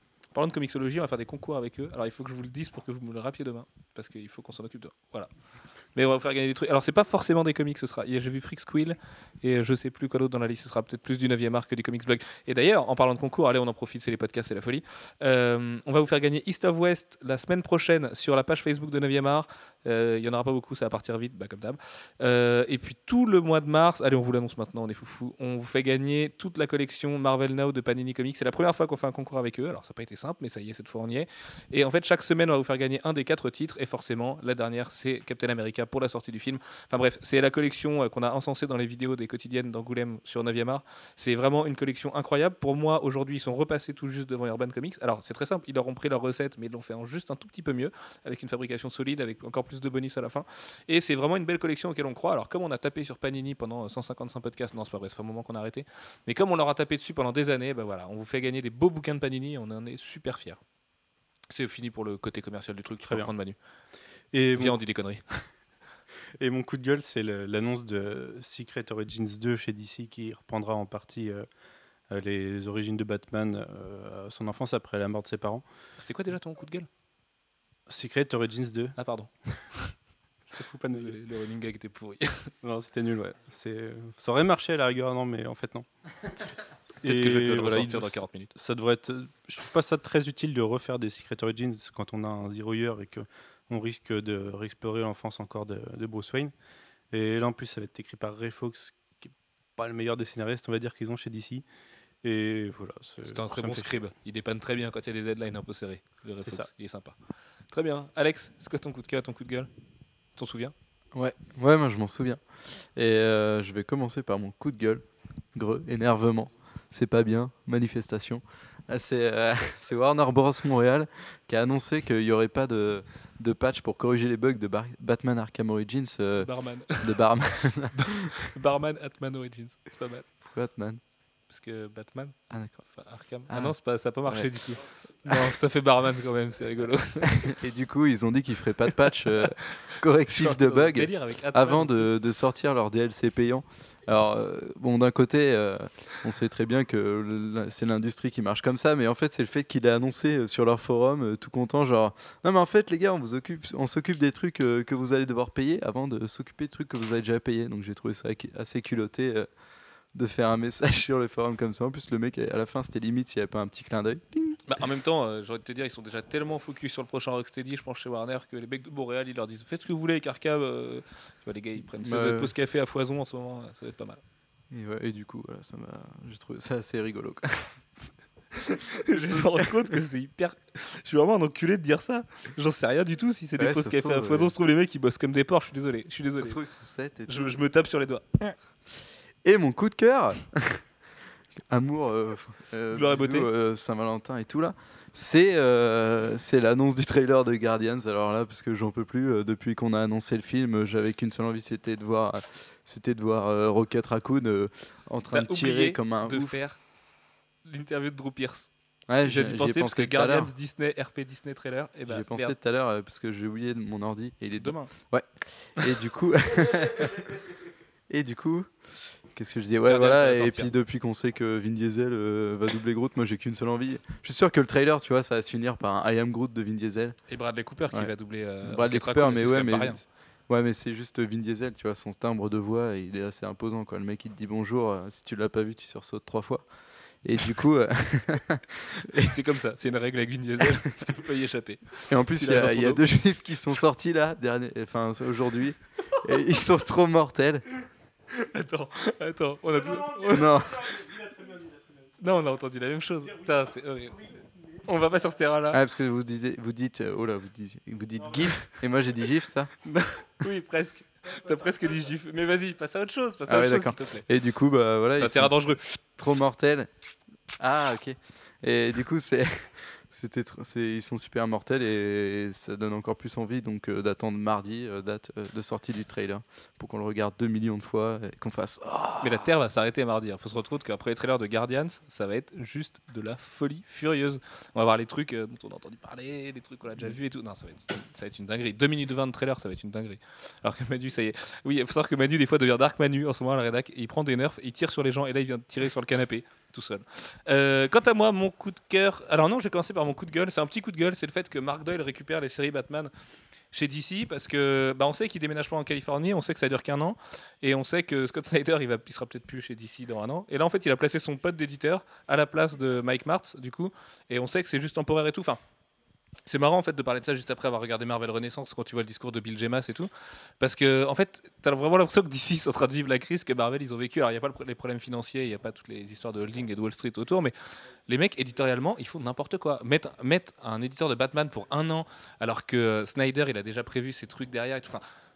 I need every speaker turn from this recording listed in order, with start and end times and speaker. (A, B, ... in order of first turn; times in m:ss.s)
0:00.3-0:05.3 A
0:06.0-1:00.6 A
1:01.5-1:03.6 A
1:04.3-1:04.8 B
1:04.6-1:05.4 A
1:06.4-1:11.5 B
1:12.1-1:15.6 B
1:16.0-1:16.9 A
1:17.9-1:19.0 B
1:19.0-1:20.0 A
1:20.5-1:21.2 B
1:20.9-1:22.5 A
1:22.6-1:25.9 B
1:27.0-1:28.5 A
1:27.0-1:36.5 B
1:37.1-1:41.6 B
1:42.2-1:43.9 B
1:43.2-1:47.2 A
1:46.4-1:46.7 B
1:47.7-1:49.7 A
1:50.4-1:50.7 A
1:51.1-2:08.3 C
2:06.4-2:07.2 A
2:08.2-2:10.3 A
2:10.4-2:11.0 C
2:11.5-2:17.5 A
2:12.5-2:12.9 C
2:13.5-2:14.7 C
2:15.3-2:15.6 C
2:17.4-2:39.5 C
2:19.4-2:22.2 A
2:40.1-2:44.6 C
2:44.7-2:54.2 A
2:51.9-2:52.5 C
2:54.7-2:57.9 C
2:58.7-3:06.6 A
2:59.3-2:59.8 C
3:03.6-3:04.6 C
3:06.4-3:07.6 C
3:07.3-3:08.6 A
3:09.4-3:10.8 C
3:11.6-3:26.6 C
3:12.9-3:13.5 A
3:25.3-3:26.8 A
3:27.6-3:28.7 A
3:29.1-3:30.5 C
3:29.2-3:32.5 A
3:32.1-3:37.4 C
3:34.6-3:34.9 A
3:38.1-3:47.2 C
3:39.9-3:40.7 A
3:47.3-3:50.0 A
3:48.6-3:59.4 C
3:59.2-4:03.0 A
4:02.1-4:07.6 C
4:08.3-4:11.2 A
4:10.3-4:11.0 C
4:12.2-4:15.8 A
4:15.7-4:19.8 C
4:19.9-4:24.3 A
4:23.5-4:25.5 C
4:25.2-4:26.0 A
4:26.2-4:26.9 C
4:27.6-4:39.5 C
4:39.2-5:03.1 A
5:03.7-5:15.6 A
5:16.5-5:20.1 A
5:20.6-5:27.5 A
5:28.1-5:35.0 A